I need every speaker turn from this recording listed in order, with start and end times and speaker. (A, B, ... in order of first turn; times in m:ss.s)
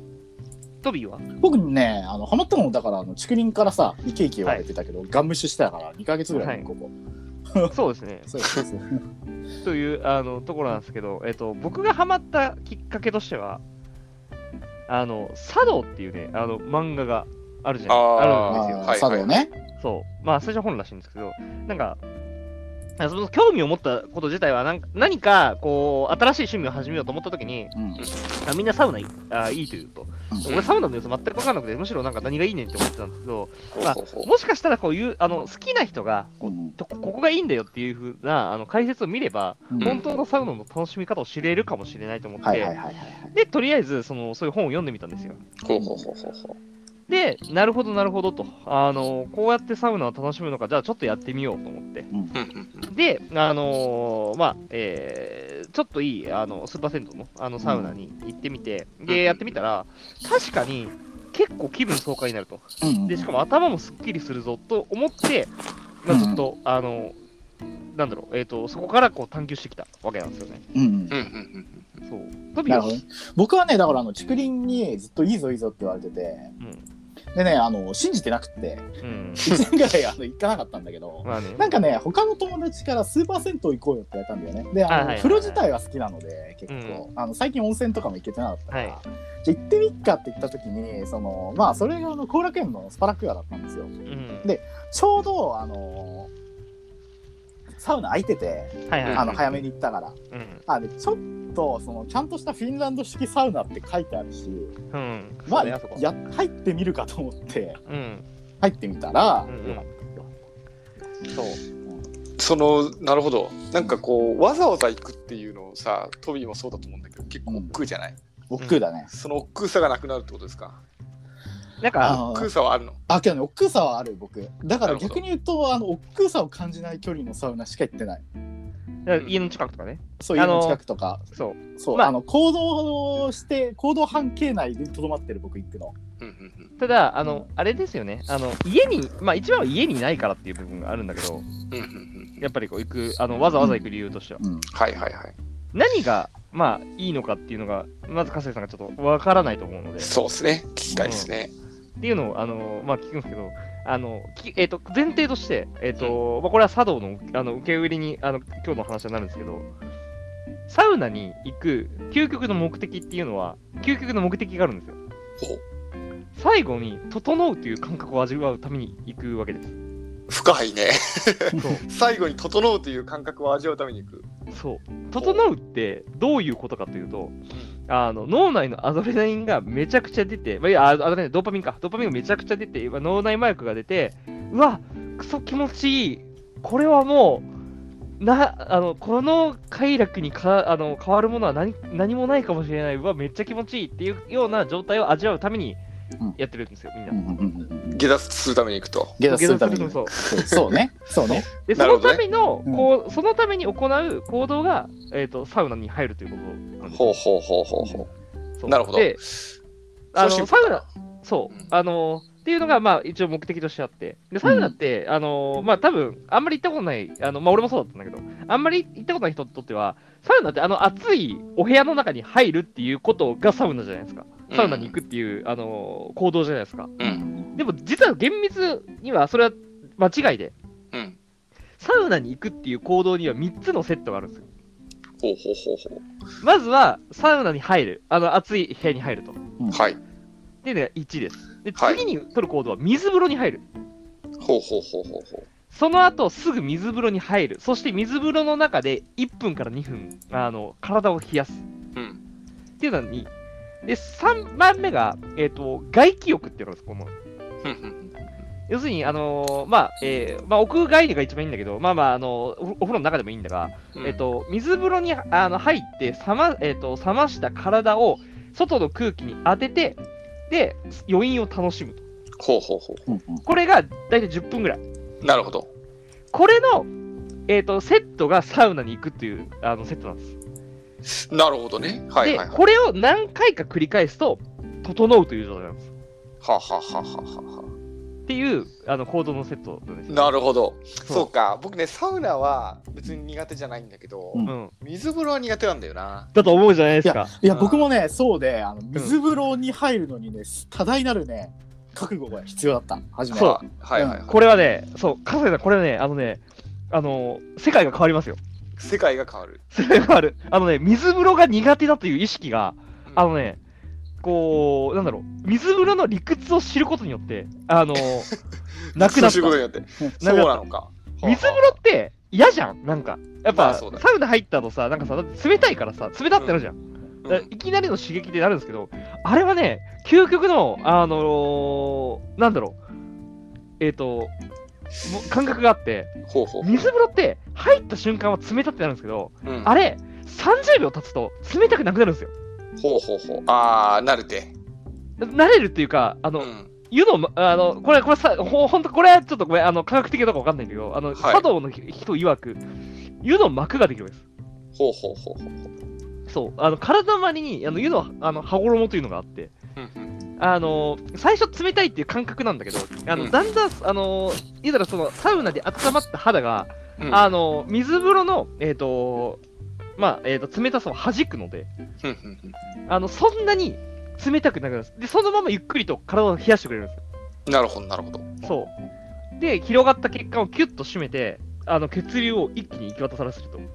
0:00.8-0:01.2 A
0:01.4-0:06.9 B
0:06.3-0:06.7 A
0:07.7-0:08.3 A
0:08.3-0:09.0 B
0:09.6-0:13.6 A
0:14.9-0:18.9 A
0:17.9-0:19.4 C
0:18.5-0:19.5 B
0:19.8-0:22.0 A
0:23.0-0:27.7 A
0:27.7-0:28.0 B
0:28.4-0:42.7 A
0:30.4-0:30.7 C
0:33.8-0:34.3 C
0:36.4-0:36.8 B
0:39.7-0:40.0 B
0:42.4-0:43.3 B
0:43.3-0:45.4 A
0:45.6-0:46.6 C
0:45.8-0:46.0 B
0:47.1-0:52.1 A
0:52.3-0:52.9 C
0:52.9-1:05.5 A
0:57.6-0:58.0 B
0:59.1-0:59.4 C
1:02.8-1:03.3 B
1:06.0-1:07.2 A
1:06.1-1:06.4 B
1:07.9-1:10.6 A
1:10.7-1:11.1 B
1:11.1-1:11.8 C
1:12.0-1:13.0 A
1:12.7-1:16.5 B
1:17.3-1:18.9 B
1:19.0-1:19.6 A
1:19.4-1:33.9 B
1:21.2-1:21.8 A
1:24.9-1:25.6 A
1:26.7-1:27.0 A
1:28.7-1:29.0 A
1:34.0-1:34.5 A
1:34.4-1:36.3 B
1:37.8-1:44.7 B
1:38.9-1:39.4 A
1:39.0-1:39.4 C
1:40.3-1:40.6 A
1:44.9-1:46.0 A
1:45.5-1:47.8 B
1:47.9-1:48.2 A
1:48.6-1:50.3 B
1:49.5-1:49.8 A
1:51.3-1:51.6 A
1:52.4-1:58.2 C
1:57.5-1:57.8 B
1:58.5-1:59.1 B
1:59.1-2:00.8 C
2:01.8-2:02.2 A
2:02.0-2:02.5 B
2:02.1-2:03.0 C
2:03.1-2:08.2 B
2:04.8-2:05.2 C
2:09.0-2:10.8 A
2:10.2-2:15.9 B
2:11.3-2:12.1 A
2:16.2-2:16.7 C
2:16.8-2:21.5 A
2:21.7-2:22.4 C
2:22.4-2:24.4 A
2:24.4-2:24.7 B
2:24.7-2:25.3 C
2:25.7-2:30.1 A
2:30.0-2:31.5 C
2:30.9-2:31.1 B
2:31.0-2:31.3 A
2:32.0-2:39.7 A
2:40.7-2:45.0 A
2:46.4-2:49.8 A
2:50.3-2:54.3 C
2:51.6-2:51.8 A
2:54.5-2:57.3 A
2:55.2-2:55.4 C
2:57.9-3:07.4 A
3:08.2-3:15.8 A
3:16.4-3:17.2 A
3:17.1-3:18.0 B
3:17.9-3:19.2 C
3:19.2-3:21.4 B
3:19.3-3:20.1 A
3:20.2-3:20.8 C
3:21.2-3:27.2 A
3:21.6-3:22.2 C
3:26.9-3:28.0 C
3:27.8-3:28.1 B
3:28.6-3:29.2 A
3:28.7-3:29.5 C
3:30.1-3:46.9 A
3:30.1-3:30.9 C
3:34.4-3:34.8 B
3:44.5-3:45.0 C
3:47.0-3:47.6 B
3:47.6-3:50.5 A
3:50.9-3:51.2 C
3:51.8-3:54.4 A
3:55.2-3:56.0 C
3:56.4-3:59.4 A
3:59.7-4:00.0 C
4:00.6-4:03.6 A
4:01.8-4:02.0 C
4:04.4-4:05.4 C
4:05.7-4:11.6 A
4:12.8-4:13.3 A
4:13.8-4:17.1 A
4:17.6-4:18.1 C
4:18.7-4:30.0 A
4:23.9-4:24.2 C
4:30.5-4:32.0 A
4:32.4-4:33.1 C
4:33.1-4:33.4 B
4:33.4-4:34.8 A
4:35.2-4:35.7 C
4:36.3-4:36.9 A
4:37.5-4:40.4 A
4:41.0-4:42.6 C
4:42.2-4:45.9 A
4:46.4-4:47.7 C
4:48.3-4:50.3 A
4:50.1-4:56.3 C
4:54.4-4:54.7 A
4:56.3-4:57.3 A
4:57.0-5:04.2 B
4:57.5-4:57.8 C
5:03.3-5:04.5 C
5:03.3-5:03.6 A
5:04.2-5:08.4 A
5:08.8-5:09.6 C
5:09.7-5:13.6 A
5:14.2-5:18.3 A
5:18.9-5:21.7 C
5:19.0-5:19.6 A
5:20.2-5:20.6 A
5:21.2-5:32.8 A
5:23.5-5:24.0 C
5:26.4-5:26.6 C
5:33.8-5:34.3 A
5:35.0-5:42.3 A
5:36.3-5:36.9 C
5:39.4-5:39.7 C
5:42.8-5:44.5 C
5:45.2-5:52.6 A
5:46.4-5:46.7 C
5:51.2-5:51.4 C
5:53.2-5:54.2 A
5:54.8-5:55.7 C
5:56.3-5:59.5 A
5:59.8-6:00.1 C
6:00.4-6:09.4 A
6:10.0-6:11.7 A
6:12.0-6:12.6 C
6:12.9-6:17.0 A
6:17.4-6:18.5 C
6:18.4-6:18.7 A
6:19.4-6:23.6 A